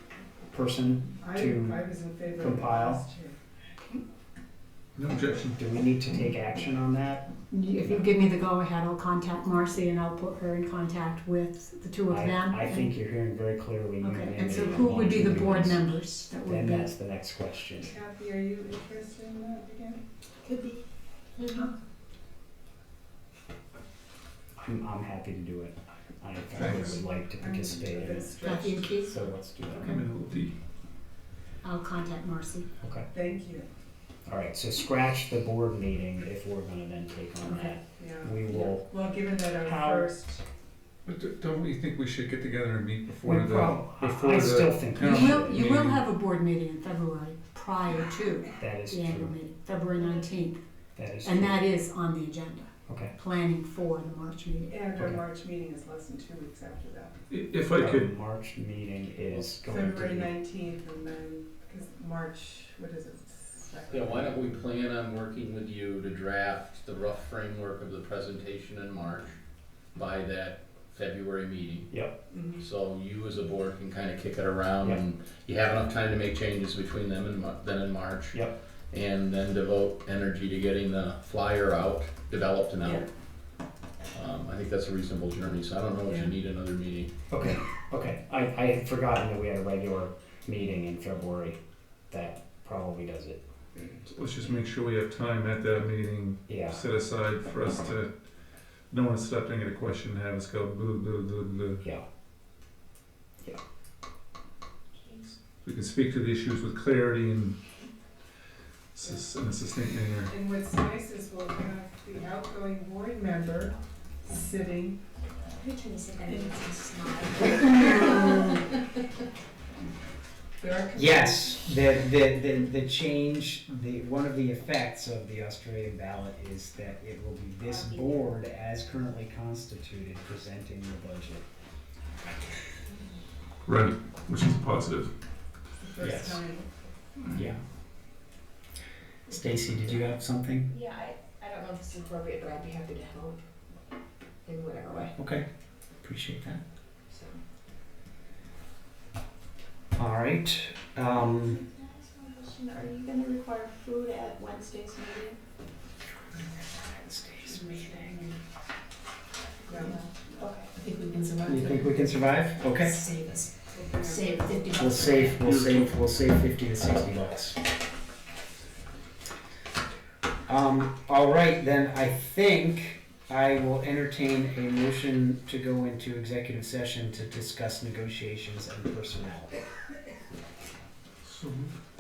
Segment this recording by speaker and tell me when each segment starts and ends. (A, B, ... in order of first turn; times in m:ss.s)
0:00.5-0:01.8 A
0:01.2-0:03.4 B
0:02.4-0:03.0 A
0:05.0-0:05.6 C
0:05.5-0:07.3 A
0:07.5-0:12.9 D
0:12.1-0:15.9 A
0:14.0-0:16.9 D
0:16.4-0:17.9 A
0:17.8-0:20.0 B
0:20.4-0:20.8 E
0:24.6-0:30.0 A
0:26.6-0:27.0 C
0:27.4-0:29.0 B
0:28.4-0:29.2 D
0:29.7-0:30.6 C
0:31.6-0:32.7 D
0:32.8-0:33.1 A
0:33.1-0:33.7 B
0:34.3-0:38.9 A
0:37.6-0:40.4 B
0:39.6-0:40.1 A
0:41.1-0:46.0 C
0:43.2-0:45.6 A
0:45.0-0:50.6 D
0:48.6-0:49.4 A
0:51.0-0:51.6 A
0:51.2-0:54.8 D
0:52.9-0:53.2 A
0:54.6-0:57.1 B
0:57.3-0:58.1 C
0:57.7-1:00.3 A
0:59.6-1:04.4 B
1:03.9-1:09.4 F
1:09.9-1:11.9 F
1:12.6-1:18.4 F
1:18.9-1:23.1 F
1:24.1-1:27.1 F
1:27.3-1:31.6 A
1:32.1-1:33.4 A
1:34.1-1:38.1 C
1:36.5-1:36.8 A
1:38.9-1:41.9 C
1:45.0-1:45.3 E
1:45.6-1:47.6 C
1:49.0-1:50.3 C
1:50.3-1:55.0 B
1:55.5-1:58.6 E
2:00.6-2:01.5 B
2:01.0-2:11.4 A
2:07.9-2:08.1 E
2:13.7-2:15.1 C
2:15.8-2:16.7 B
2:16.0-2:16.4 A
2:17.3-2:17.6 A
2:19.3-2:20.7 A
2:20.7-2:23.4 E
2:24.4-2:25.2 E
2:25.2-2:25.5 A
2:26.0-2:26.6 A
2:27.1-2:27.4 E
2:30.0-2:31.6 A
2:31.6-2:35.4 E
2:37.0-2:38.2 A
2:39.7-2:39.9 B
2:39.8-2:41.9 E
2:41.5-2:43.1 A
2:42.6-2:45.4 E
2:43.7-2:44.6 B
2:44.7-2:47.6 A
2:45.5-2:45.8 C
2:50.5-2:59.5 A
3:01.3-3:01.7 C